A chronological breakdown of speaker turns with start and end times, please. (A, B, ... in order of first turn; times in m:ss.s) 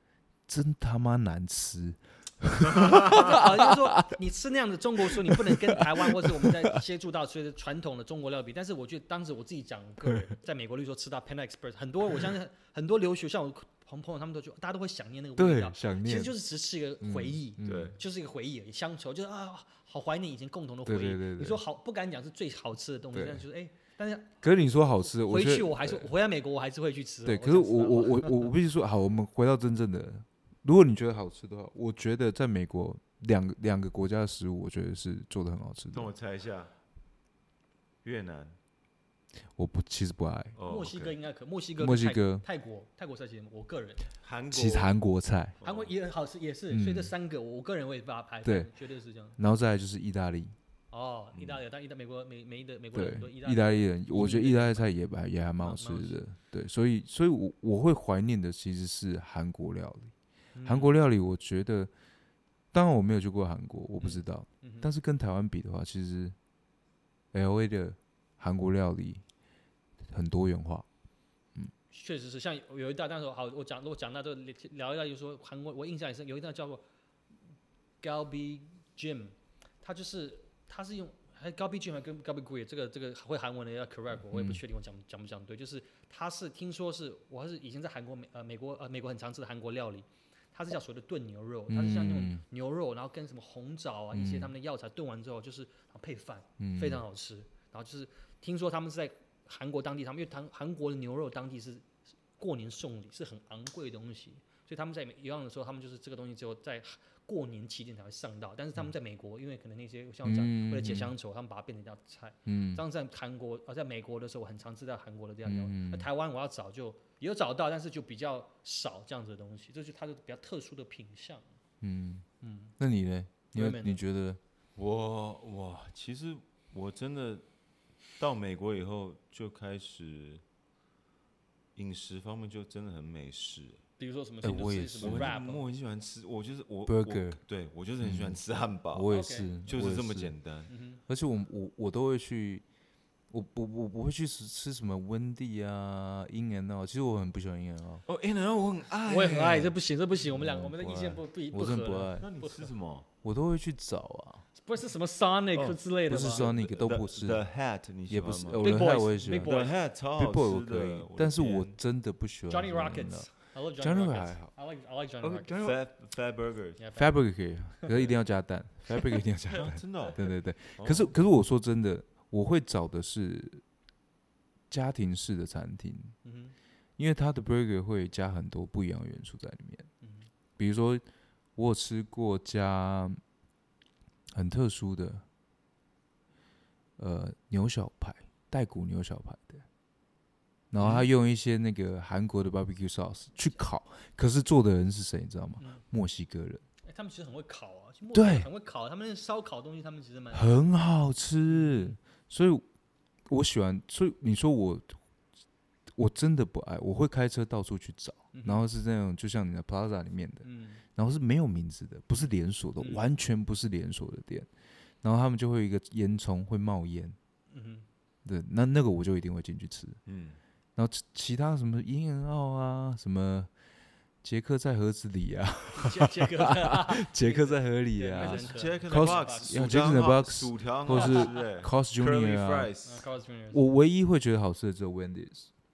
0:00.5-0:03.9 A
0:02.8-0:03.2 B
0:02.9-0:24.4 C
0:05.3-0:06.5 A
0:15.4-0:16.4 A
0:17.0-0:18.0 A
0:17.6-0:18.0 B
0:20.8-0:21.6 A
0:23.1-0:23.4 A
0:24.4-0:26.1 A
0:25.2-0:28.5 C
0:27.2-0:36.1 A
0:35.9-0:36.7 B
0:38.0-0:38.6 B
0:39.6-0:40.6 A
0:40.6-0:41.2 B
0:40.7-0:44.1 C
0:41.8-0:42.4 A
0:44.2-0:44.9 B
0:44.5-0:45.6 A
0:45.6-0:45.9 B
0:45.6-0:49.4 C
0:46.7-0:47.1 A
0:48.4-0:48.7 A
0:49.4-0:50.6 A
0:50.9-0:54.9 C
0:51.3-0:51.6 B
0:52.9-1:00.1 A
0:55.6-0:56.2 C
1:00.5-1:01.0 C
1:00.6-1:01.9 A
1:02.7-1:06.4 A
1:04.0-1:04.9 C
1:07.3-1:09.2 A
1:10.1-1:10.9 A
1:11.9-1:16.8 C
1:18.0-1:41.8 C
1:24.3-1:24.6 A
1:31.7-1:32.4 A
1:34.1-1:34.5 A
1:36.6-1:37.0 A
1:42.4-2:01.4 C
1:50.2-1:51.1 A
1:52.5-1:52.8 A
1:55.4-1:56.1 A
2:01.8-2:02.3 A
2:02.4-2:02.8 C
2:02.8-2:04.4 A
2:03.5-2:04.0 C
2:04.8-2:07.5 B
2:08.2-2:10.4 B
2:11.8-2:13.8 B
2:14.0-2:15.6 C
2:14.4-2:15.3 A
2:15.0-2:20.7 B
2:16.9-2:17.4 A
2:18.0-2:20.4 A
2:19.1-2:19.5 C
2:20.7-2:21.0 C
2:21.1-2:22.6 A
2:23.3-2:28.0 A
2:28.1-2:29.8 B
2:29.1-2:32.7 C
2:30.2-2:32.3 A
2:32.2-2:33.1 B
2:33.2-2:34.4 A
2:34.6-2:36.5 C
2:35.5-2:41.8 B
2:36.1-2:37.5 A
2:38.1-2:39.6 A
2:38.6-2:39.7 C
2:40.1-2:44.5 A
2:42.5-2:45.6 C
2:45.2-2:45.8 A
2:45.6-2:46.8 B
2:46.8-2:47.2 C
2:47.0-2:53.6 A
2:49.5-2:51.1 B
2:54.7-2:56.2 A
2:56.2-2:56.6 C
2:57.0-2:59.9 A
3:00.0-3:00.3 C
3:00.6-3:01.0 A
3:01.6-3:03.2 A
3:04.3-3:05.2 A
3:07.0-3:09.6 A
3:10.7-3:16.6 A
3:10.8-3:11.1 B
3:15.6-3:15.8 C
3:16.9-3:20.7 C
3:18.1-3:18.5 A
3:20.3-3:22.6 A
3:21.5-3:22.0 C
3:23.3-3:25.0 A
3:25.9-3:34.5 A
3:28.3-3:28.6 C
3:30.4-3:30.8 C
3:32.8-3:33.1 C
3:35.0-3:37.2 A
3:37.5-3:37.9 C
3:38.2-3:40.0 A
3:40.1-3:40.4 B
3:40.8-3:43.5 A
3:44.2-3:52.7 A
3:45.7-3:49.7 C
3:48.2-3:53.1 B
3:50.9-3:51.4 C
3:52.8-3:53.6 C
3:53.5-3:55.5 A